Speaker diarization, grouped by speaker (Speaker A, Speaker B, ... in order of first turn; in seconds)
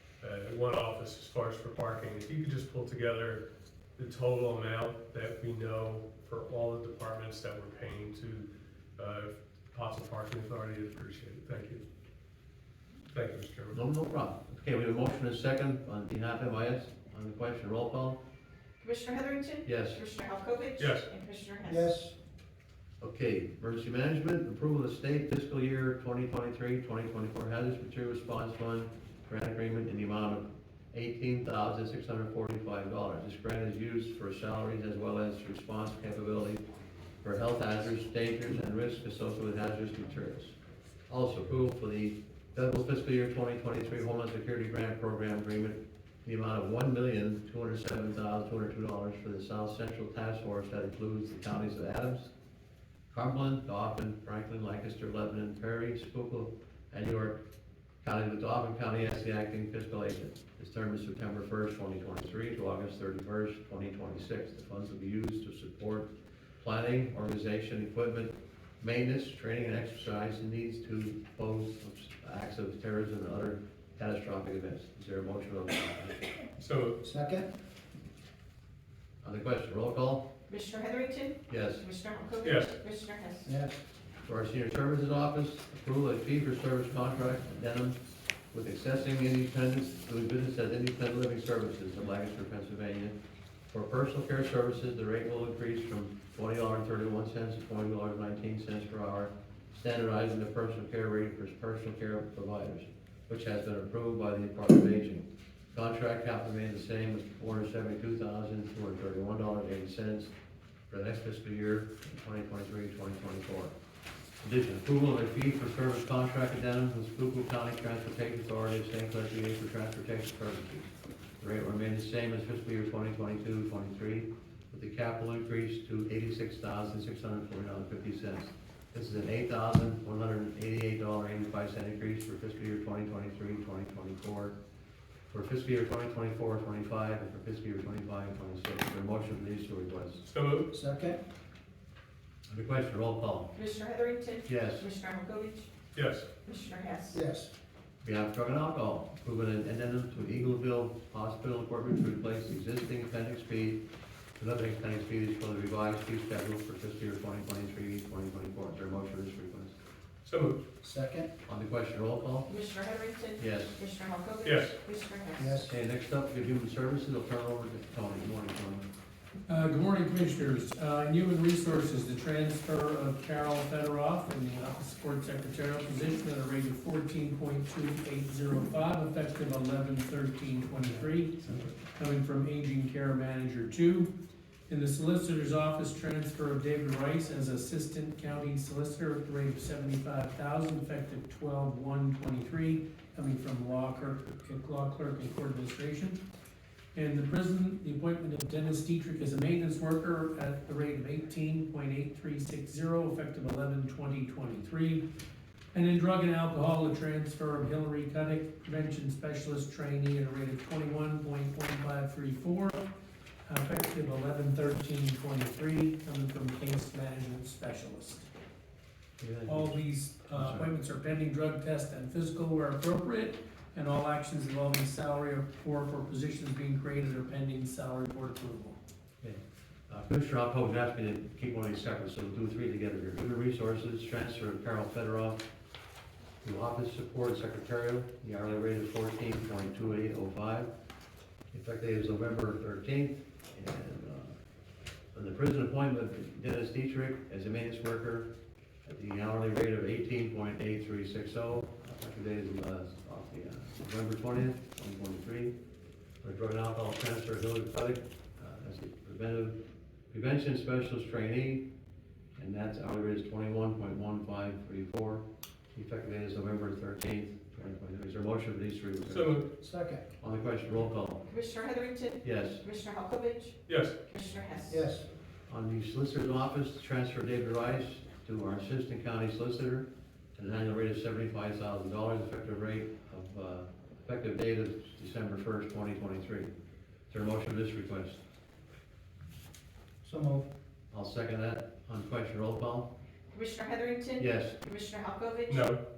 Speaker A: 0.2-3.4, 4.0-8.4, 9.0-11.8, 13.1-13.7, 20.8-21.1, 76.6-76.9, 82.4-82.7, 140.3-140.7, 145.9-146.3, 160.2-160.6, 164.4-164.7, 269.1-269.4, 273.7-273.9, 295.5-295.8
Speaker B: 13.7-18.2, 19.6-20.0, 23.0-36.6, 37.2-40.5, 41.1-52.3, 53.1-57.4, 58.0-76.3, 79.2-80.3, 81.5-81.8, 84.2-88.0, 88.5-93.1, 93.7-110.3, 110.9-113.7, 114.4-134.5, 135.3-140.2, 142.5-143.5, 144.4-144.9, 148.0-153.8, 154.4-159.8, 161.4-162.5, 163.4-163.8, 165.6-168.8, 219.2-219.8, 220.3-220.7, 229.2-235.4, 236.4-240.7, 241.5-244.3, 245.1-248.3, 248.8-255.5, 256.2-259.6, 260.1-261.7, 262.4-269.4, 270.2-271.2, 272.2-272.6, 275.5-286.5, 287.1-288.2, 290.9-292.9, 294.2-294.6
Speaker C: 18.8-21.9, 80.5-83.5, 143.5-145.7, 146.4-147.2, 162.5-165.5, 271.3-274.8, 293.3-295.6
Speaker D: 21.6-22.1, 77.0-77.5, 83.4-83.8, 140.7-141.2, 147.1-147.5, 160.8-161.3, 165.4-165.7, 269.6-270.0, 274.7-275.1, 290.0-290.5
Speaker E: 169.5-184.1, 184.7-196.2, 196.9-205.1, 205.7-212.9, 213.4-218.3, 219.4-228.8